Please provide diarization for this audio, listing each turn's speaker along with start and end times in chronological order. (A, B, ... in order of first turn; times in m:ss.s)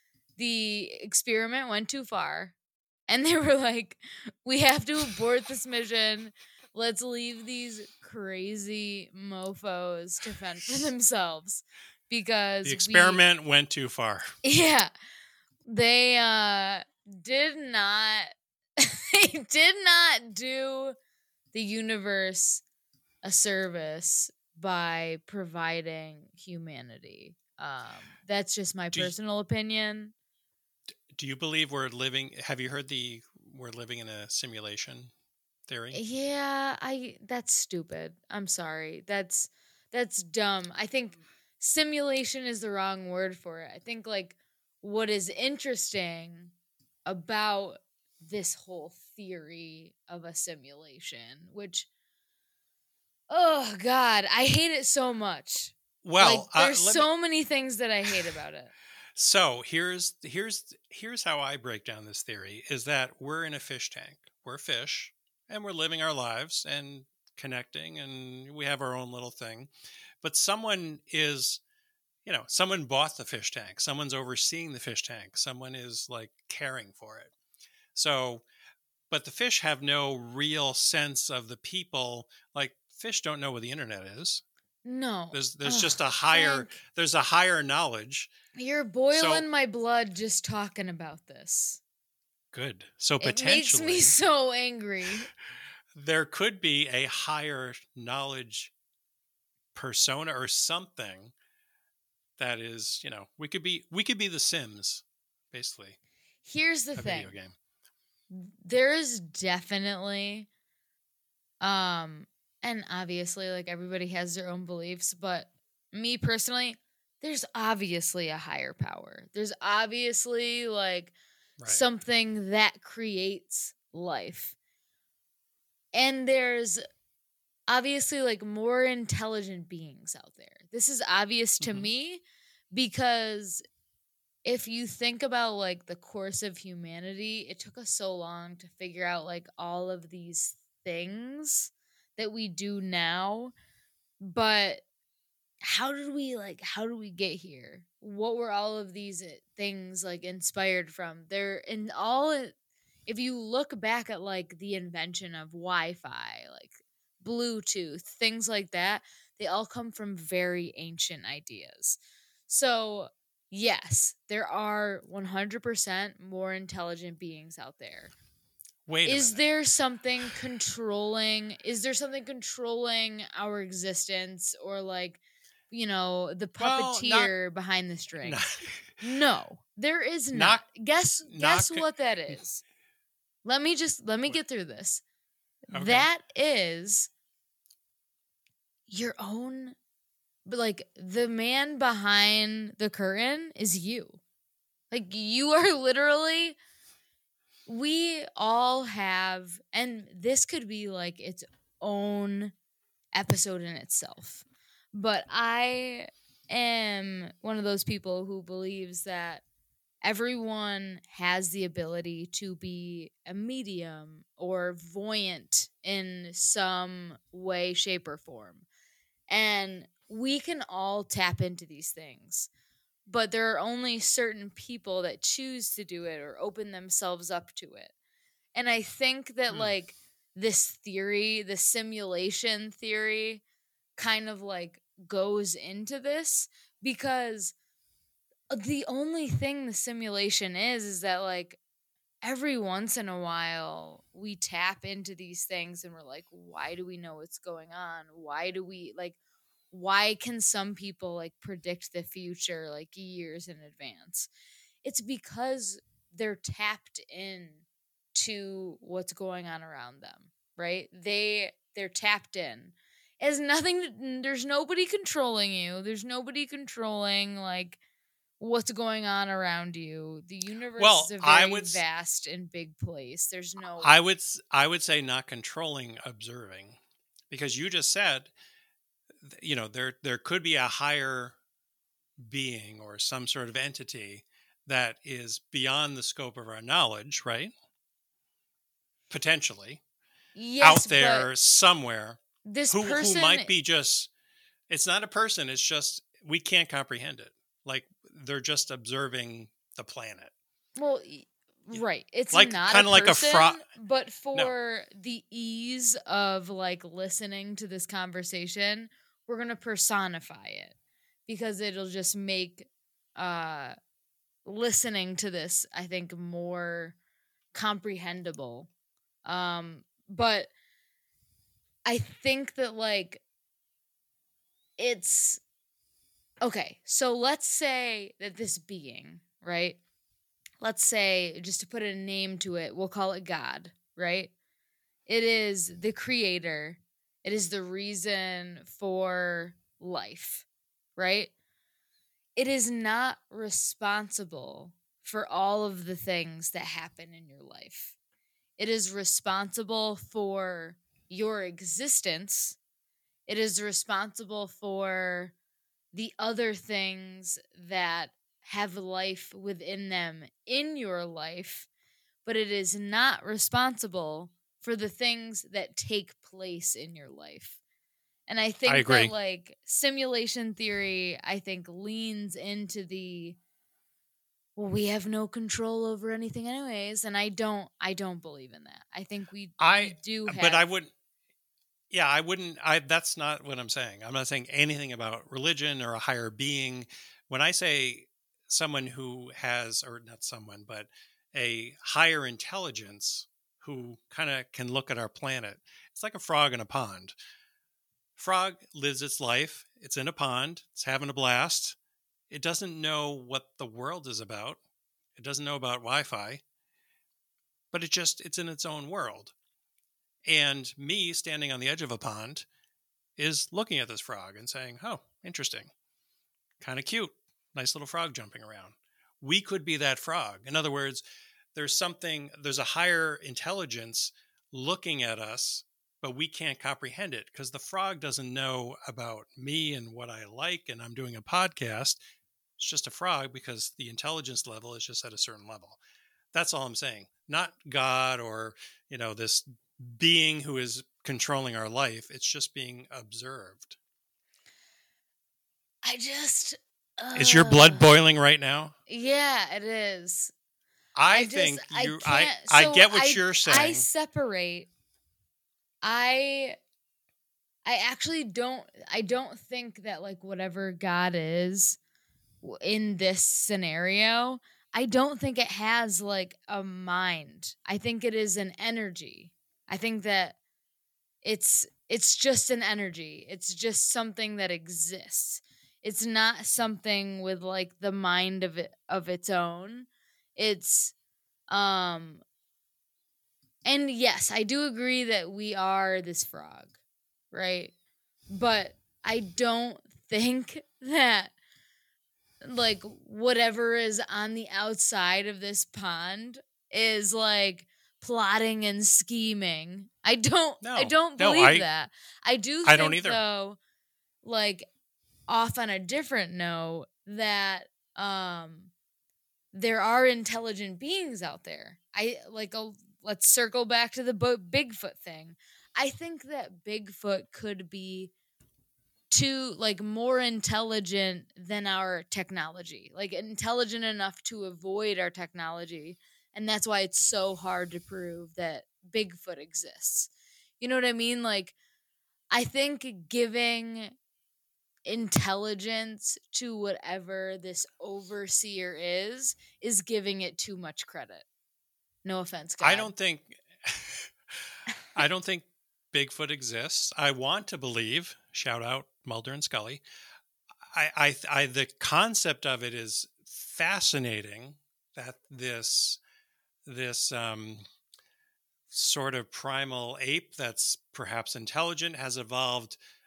0:00.4-0:02.5 A
0:03.1-0:13.2 A
0:12.6-0:14.3 B
0:14.4-0:14.9 A
0:15.6-0:21.0 A
0:21.5-0:22.6 A
0:23.2-0:30.1 A
0:30.9-0:35.1 B
0:35.7-0:36.0 B
0:35.9-0:46.5 A
0:47.0-0:51.9 A
0:53.3-0:58.7 A
0:56.0-0:57.1 B
0:59.2-1:11.6 B
1:12.2-1:17.3 B
1:17.9-1:18.4 B
1:19.1-1:24.4 B
1:24.8-1:26.8 A
1:25.3-1:28.3 B
1:28.6-1:31.8 A
1:29.1-1:29.4 B
1:32.5-1:34.1 B
1:33.2-1:35.3 A
1:35.9-1:38.7 B
1:39.7-1:41.3 B
1:42.4-1:46.0 B
1:46.4-1:47.4 A
1:47.0-1:47.5 B
1:48.3-1:50.5 A
1:51.6-2:01.1 A
2:01.6-2:01.8 B
2:01.6-2:04.5 A
2:05.9-2:06.8 A
2:07.7-2:13.6 A
2:11.6-2:11.9 B
2:14.4-2:23.5 A
2:24.2-2:24.8 A
2:25.6-2:32.5 A
2:33.1-2:48.1 A
2:48.9-2:49.4 B
2:49.0-2:58.4 A
2:56.6-2:57.3 B
2:58.2-2:58.9 B
2:59.0-3:02.6 A
3:00.3-3:00.6 B
3:01.2-3:01.8 B
3:03.4-3:05.0 A
3:05.7-3:07.1 A
3:05.7-3:06.1 B
3:08.9-3:09.8 A
3:10.4-3:14.2 A
3:14.9-3:16.6 A
3:17.7-3:22.5 A
3:23.1-3:29.4 A
3:30.0-3:38.6 A
3:39.3-3:42.5 A
3:43.0-3:47.9 A
3:48.5-3:53.4 A
3:54.0-3:57.5 A
3:58.5-4:01.6 A
4:02.2-4:09.2 A
4:09.7-4:14.3 A
4:14.8-4:17.6 A
4:18.1-4:27.8 A
4:28.4-4:34.0 A
4:30.8-4:31.8 B
4:33.8-4:36.8 B
4:37.3-4:38.3 B
4:39.2-4:41.4 B
4:42.2-4:47.5 B
4:49.1-4:49.8 B
4:50.3-4:51.3 A
4:50.6-4:54.1 B
4:52.4-4:53.5 A
4:54.7-5:00.3 B
5:00.8-5:10.7 A
5:01.7-5:03.6 B
5:11.3-5:13.8 A
5:14.4-5:17.0 A
5:17.5-5:18.7 A
5:19.2-5:20.5 A
5:21.8-5:23.2 A
5:24.8-5:25.4 A
5:26.4-5:29.8 A
5:30.6-5:34.3 A
5:35.1-5:40.4 A
5:41.0-5:41.3 A
5:42.4-5:47.9 A
5:48.6-5:52.6 A
5:53.3-5:55.3 A
5:55.9-6:01.7 A
6:02.2-6:07.6 A
6:08.3-6:13.4 A
6:08.7-6:09.1 B
6:14.6-6:20.6 A
6:19.6-6:20.9 B
6:21.9-6:37.1 B
6:38.2-6:41.8 B
6:42.3-6:44.6 B
6:45.2-6:46.4 B
6:47.7-6:49.3 B
6:50.2-6:52.4 B
6:53.2-6:55.7 B
6:56.6-7:01.0 B
7:01.5-7:12.0 B
7:12.6-7:15.8 B
7:16.3-7:23.7 B
7:25.8-7:27.9 A
7:27.1-7:28.7 B
7:28.9-7:30.3 A
7:30.9-7:33.8 B
7:31.1-7:34.7 A
7:35.8-7:36.6 A
7:37.6-7:41.8 A
7:42.4-7:50.4 A
7:51.2-8:00.9 A
8:01.5-8:02.2 A
8:03.6-8:06.7 A
8:07.3-8:07.7 A
8:08.3-8:11.3 A
8:12.4-8:23.6 A
8:20.6-8:21.6 B
8:22.6-8:23.2 B
8:24.2-8:24.6 A
8:25.3-8:28.7 A
8:29.5-8:38.1 A
8:39.1-8:50.1 A
8:50.6-8:51.5 A
8:52.3-8:53.9 A
8:54.8-9:01.2 A
9:02.0-9:02.9 A
9:02.6-9:09.8 B
9:10.7-9:16.0 B
9:16.6-9:17.6 B
9:18.7-9:22.8 B